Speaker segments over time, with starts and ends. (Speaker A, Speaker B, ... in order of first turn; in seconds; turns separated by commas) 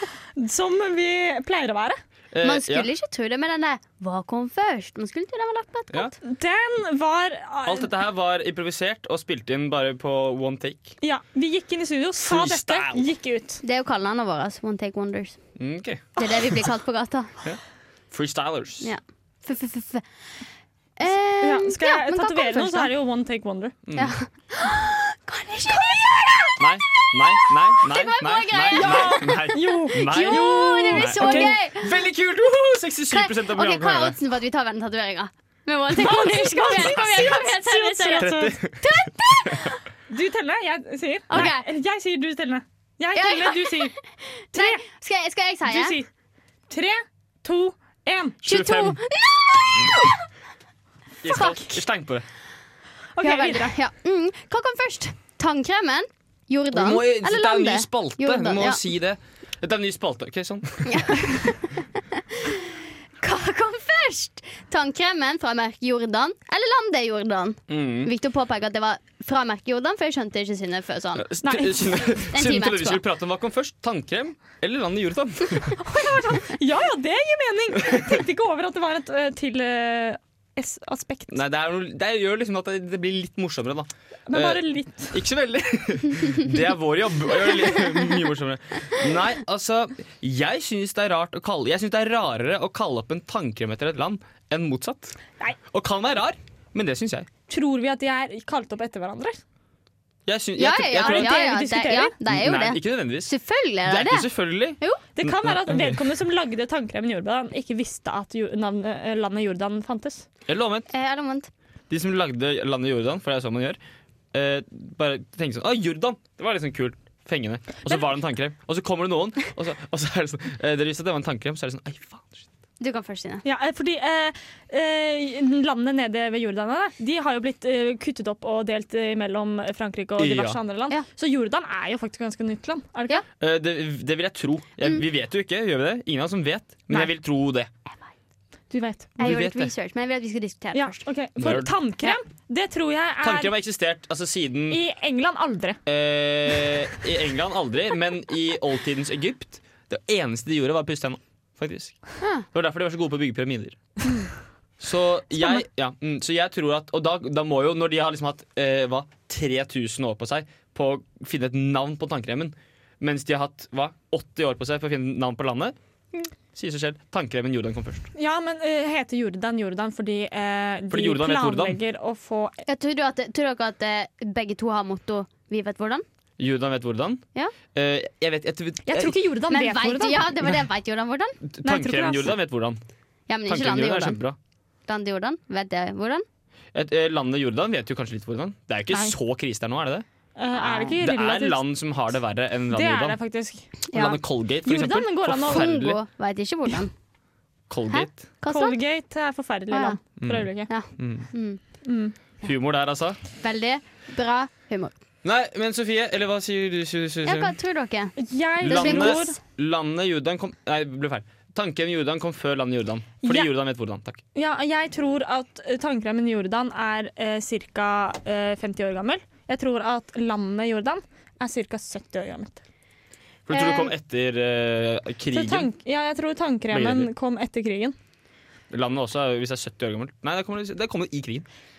Speaker A: 0.4-2.0, Speaker B: 2.3-2.9, Speaker C: 2.4-6.2, Speaker A: 6.2-7.9, Speaker B: 7.7-11.0, Speaker A: 11.0-13.6, Speaker B: 12.2-13.1, Speaker C: 13.6-15.4, Speaker B: 15.6-16.2, Speaker C: 16.2-17.4, Speaker B: 17.4-18.9, Speaker C: 18.8-20.1, Speaker C: 21.0-22.9, Speaker A: 21.4-23.8, Speaker B: 23.9-24.2, Speaker C: 23.9-31.9, Speaker B: 26.6-34.2, Speaker A: 28.7-31.6, Speaker C: 33.1-39.8, Speaker A: 35.9-38.6, Speaker B: 36.7-37.3, Speaker B: 38.2-38.9, Speaker A: 40.1-44.0, Speaker C: 41.3-41.7, Speaker C: 43.1-46.0, Speaker A: 44.5-44.8, Speaker A: 45.6-46.1, Speaker A: 46.7-48.4, Speaker C: 48.4-50.2, Speaker B: 48.4-49.0, Speaker B: 51.2-52.3, Speaker C: 51.3-51.8, Speaker A: 53.2-53.8, Speaker C: 53.2-58.8, Speaker B: 56.7-61.3, Speaker C: 60.9-62.6, Speaker C: 63.2-71.3, Speaker B: 67.7-68.1, Speaker B: 71.2-75.8, Speaker A: 71.4-72.2, Speaker C: 72.3-73.0, Speaker A: 75.8-81.4, Speaker B: 81.3-95.2, Speaker A: 84.3-85.2, Speaker B: 95.7-97.3, Speaker A: 97.5-99.4, Speaker B: 100.3-101.4, Speaker C: 100.6-105.0, Speaker A: 101.0-102.2, Speaker B: 102.3-103.3, Speaker B: 103.8-106.0, Speaker A: 105.2-110.3, Speaker B: 110.5-110.9, Speaker C: 110.9-111.5, Speaker B: 111.9-113.8, Speaker B: 114.3-122.5, Speaker C: 122.8-123.5, Speaker A: 123.4-133.2, Speaker B: 130.2-130.6, Speaker B: 133.4-137.7, Speaker A: 138.7-139.2, Speaker C: 139.2-141.1, Speaker B: 139.2-139.7, Speaker A: 140.7-143.5, Speaker B: 141.4-141.7, Speaker B: 143.2-144.8, Speaker A: 144.7-145.8, Speaker B: 145.9-151.9, Speaker B: 152.5-153.8, Speaker B: 154.8-165.8, Speaker A: 155.3-155.6, Speaker B: 166.5-168.1, Speaker A: 168.2-172.6, Speaker B: 170.9-171.8, Speaker C: 172.7-176.0, Speaker B: 176.4-179.2, Speaker A: 178.9-180.3, Speaker C: 179.5-181.4, Speaker B: 181.4-182.8, Speaker A: 181.6-182.3, Speaker C: 183.3-184.2, Speaker B: 183.5-184.4, Speaker C: 184.9-186.2, Speaker B: 186.7-190.1, Speaker A: 188.9-189.2, Speaker A: 190.4-191.7, Speaker C: 190.6-191.0, Speaker B: 191.0-193.2, Speaker A: 192.7-195.7, Speaker B: 193.9-196.0, Speaker C: 195.4-196.9, Speaker B: 197.7-198.2, Speaker C: 197.9-198.8, Speaker A: 198.5-200.7, Speaker C: 199.7-200.0, Speaker B: 200.2-201.3, Speaker C: 200.7-201.6, Speaker A: 201.8-202.2, Speaker B: 202.4-203.2, Speaker C: 203.4-204.9, Speaker B: 205.2-207.6, Speaker C: 207.2-209.3, Speaker A: 208.2-209.4, Speaker B: 208.6-214.2, Speaker A: 213.2-213.5, Speaker A: 214.3-222.6, Speaker B: 223.5-225.7, Speaker C: 223.5-223.9, Speaker A: 225.3-227.9, Speaker B: 226.7-227.1, Speaker B: 228.7-231.5